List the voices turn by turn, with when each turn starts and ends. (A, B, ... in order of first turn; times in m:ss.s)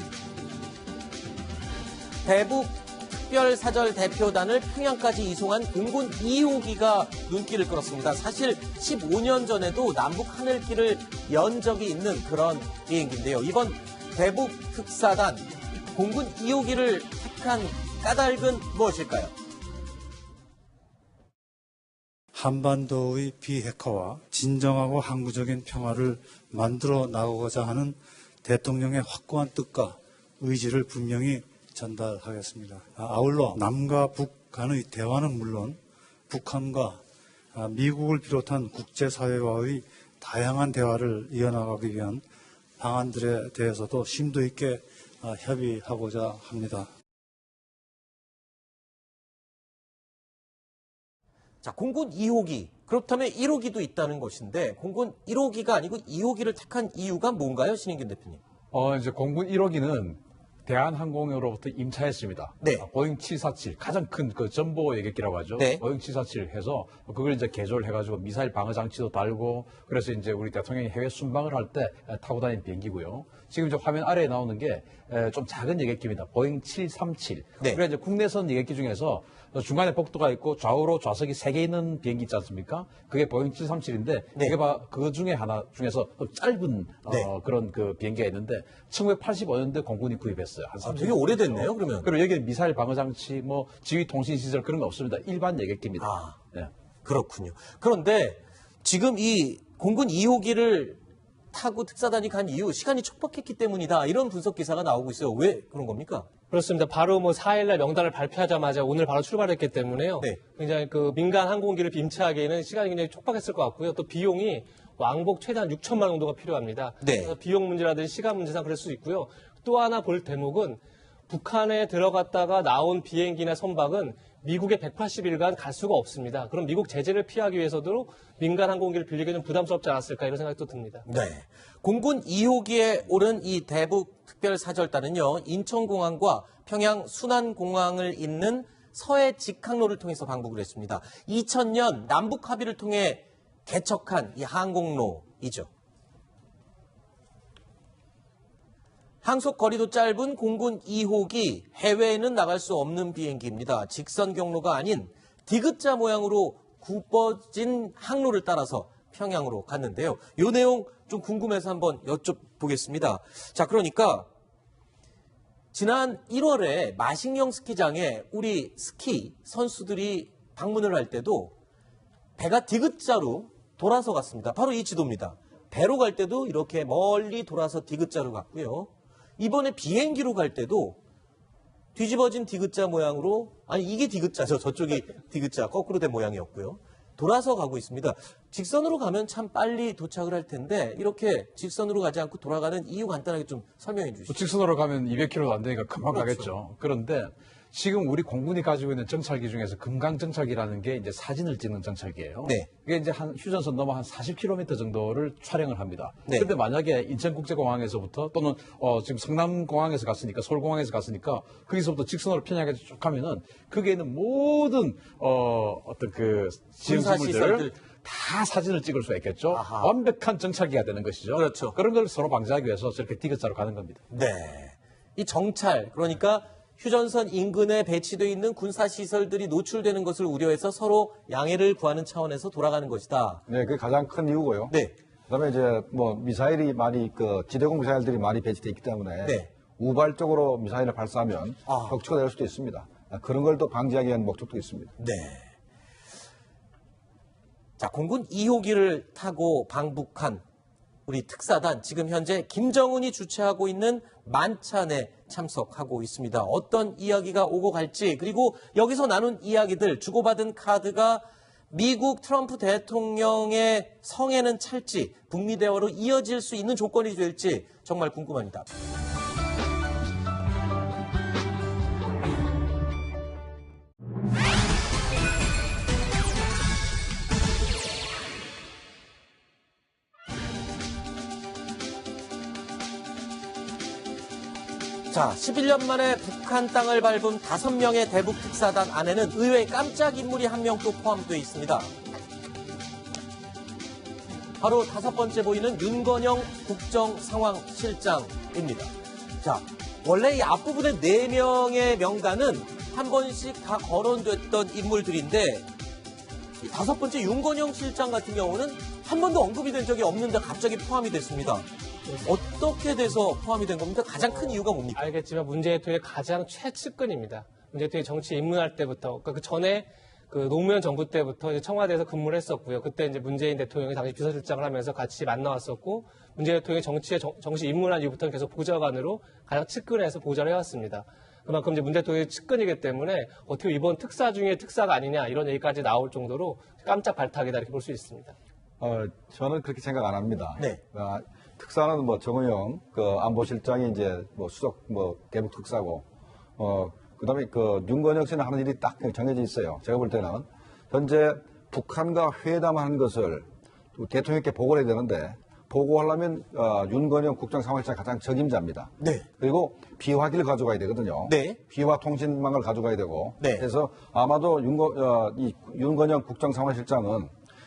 0:02.2-0:19.3 A
0:22.3-0:37.0 B
0:37.5-0:42.2 B
0:42.8-0:46.9 B
0:51.6-0:58.4 A
0:58.7-1:36.7 C
1:05.6-1:05.8 A
1:30.8-1:32.1 A
1:36.0-1:36.4 A
1:37.0-1:41.0 A
1:41.5-1:46.3 A
1:46.5-2:11.0 D
1:57.0-1:57.3 A
2:11.0-2:25.7 A
2:29.2-2:44.3 A
2:45.7-2:51.5 A
2:52.4-3:01.0 A
3:01.9-3:14.5 A
3:14.3-3:44.0 C
3:16.1-3:16.5 A
3:22.4-3:22.7 A
3:36.8-3:37.7 A
3:39.5-3:39.9 A
3:41.3-3:41.8 A
3:44.1-3:53.4 A
3:53.5-3:54.7 E
3:54.7-3:54.9 A
3:55.3-4:04.9 E
3:59.2-3:59.5 A
4:01.6-4:02.0 A
4:05.0-4:05.5 A
4:07.8-4:10.4 A
4:11.0-4:28.7 A
4:45.1-4:51.9 A
4:54.6-5:05.7 A
5:06.6-5:11.6 A
5:12.2-5:15.1 A
5:14.2-5:38.3 D
5:38.8-5:46.0 E
5:46.6-6:07.3 E
5:59.0-5:59.2 A
6:01.2-6:01.6 A
6:03.4-6:03.6 A